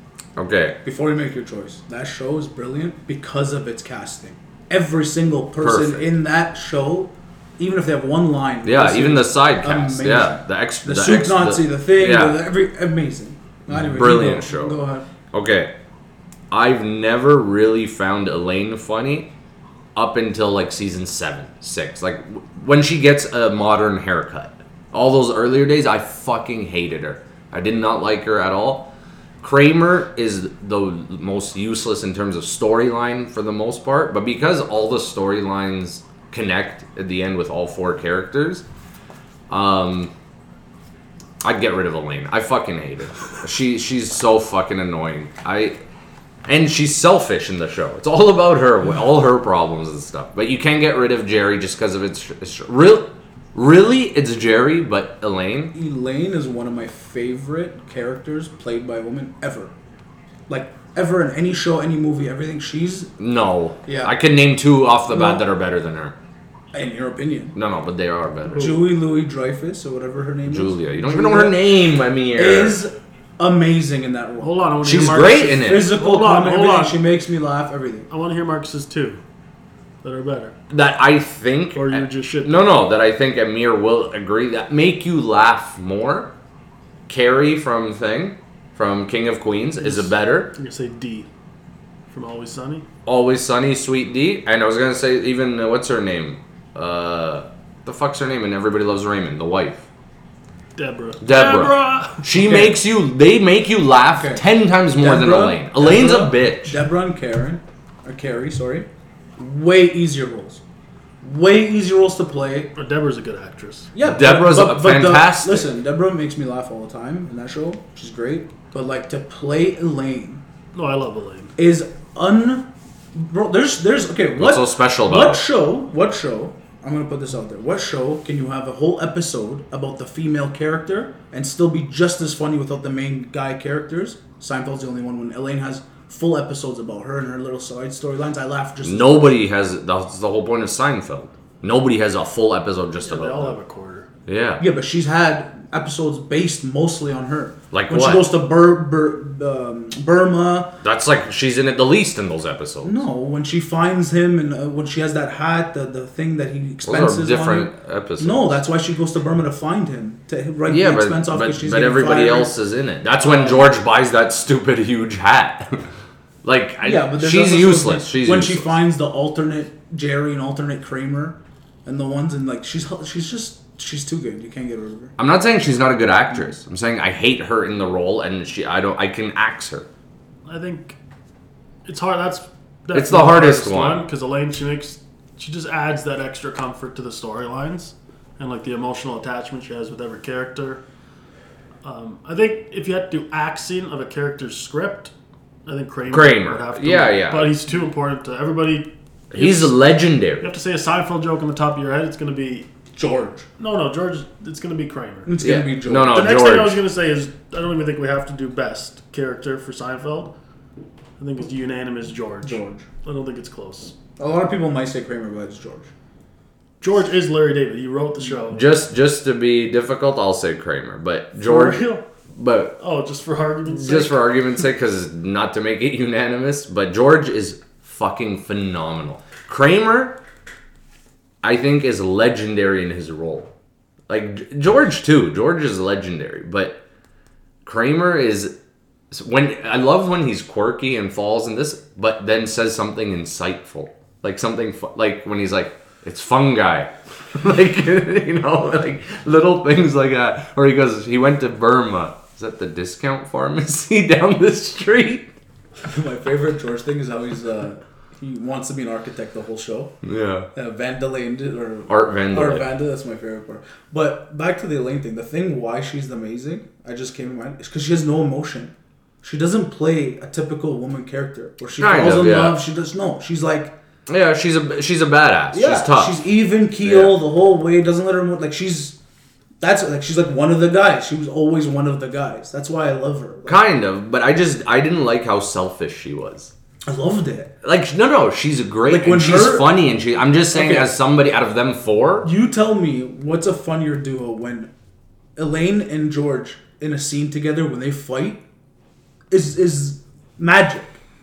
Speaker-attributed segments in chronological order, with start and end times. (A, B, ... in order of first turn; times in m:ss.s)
0:00.4-0:00.8 A
0:00.8-0:15.1 B
0:05.6-0:06.1 A
0:08.6-0:12.4 A
0:13.7-0:14.8 A
0:15.3-0:15.7 A
0:16.5-0:19.3 A
0:20.0-0:28.9 A
0:29.4-0:38.6 A
0:39.5-0:40.1 A
0:41.4-0:45.8 A
0:46.4-0:55.7 A
0:55.7-0:59.7 B
1:00.5-1:03.1 B
1:03.2-1:06.2 A
1:03.9-1:04.2 B
1:05.1-1:05.5 B
1:06.7-1:07.6 B
1:07.6-1:08.8 A
1:08.5-1:11.8 B
1:10.5-1:12.8 A
1:12.3-1:14.5 B
1:14.4-1:17.0 C
1:14.8-1:15.9 A
1:15.6-1:18.1 B
1:18.1-1:19.2 C
1:20.0-1:20.5 C
1:20.7-1:26.3 A
1:21.8-1:22.7 C
1:27.1-1:30.5 A
1:29.8-1:31.3 C
1:32.1-1:32.8 C
1:33.1-1:39.9 A
1:40.8-1:42.3 C
1:41.2-1:46.8 A
1:42.4-1:42.8 B
1:44.1-1:50.6 B
1:51.2-1:52.7 B
1:52.8-1:53.9 C
1:53.9-2:00.4 B
1:54.0-1:55.7 A
2:00.7-2:01.5 C
2:01.6-2:19.4 B
2:04.4-2:05.4 A
2:18.8-2:23.6 A
2:23.0-2:24.1 C
2:24.3-2:24.6 A
2:24.6-2:30.7 B
2:27.7-2:28.3 A
2:30.8-2:33.0 A
2:32.8-2:42.5 B
2:36.8-2:38.6 A
2:40.7-2:45.8 A
2:43.2-2:43.7 B
2:46.4-2:48.8 A
2:46.8-2:55.1 B
2:55.2-2:59.9 A
3:00.5-3:01.0 C
3:01.9-3:10.8 C
3:02.9-3:04.0 A
3:11.8-3:15.1 C
3:15.7-3:19.7 C
3:16.1-3:17.6 A
3:19.3-3:20.4 A
3:20.4-3:22.7 C
3:22.9-3:23.5 B
3:23.6-3:25.4 C
3:25.3-3:26.3 B
3:25.4-3:26.8 A
3:26.1-3:30.3 C
3:31.2-3:33.9 C
3:32.4-3:32.9 B
3:34.2-3:35.9 B
3:36.8-3:38.7 C
3:38.5-3:42.8 A
3:41.4-3:42.0 C
3:42.8-3:44.2 C
3:43.7-3:50.2 A
3:51.4-3:53.5 A
3:54.1-3:56.8 A
3:57.6-3:58.5 A
3:59.1-4:15.3 A
4:15.8-4:19.9 B
4:20.0-4:20.5 A
4:20.6-4:33.7 B
4:21.9-4:22.7 A
4:31.8-4:32.6 A
4:34.1-4:36.2 A
4:35.5-4:39.0 B
4:36.8-4:37.2 A
4:39.6-4:43.6 B
4:43.5-4:46.5 A
4:46.9-4:47.5 B
4:47.6-4:52.3 A
4:48.9-4:49.7 B
4:50.5-4:50.9 B
4:52.2-4:54.7 B
4:55.4-4:58.4 B
4:59.3-5:01.0 B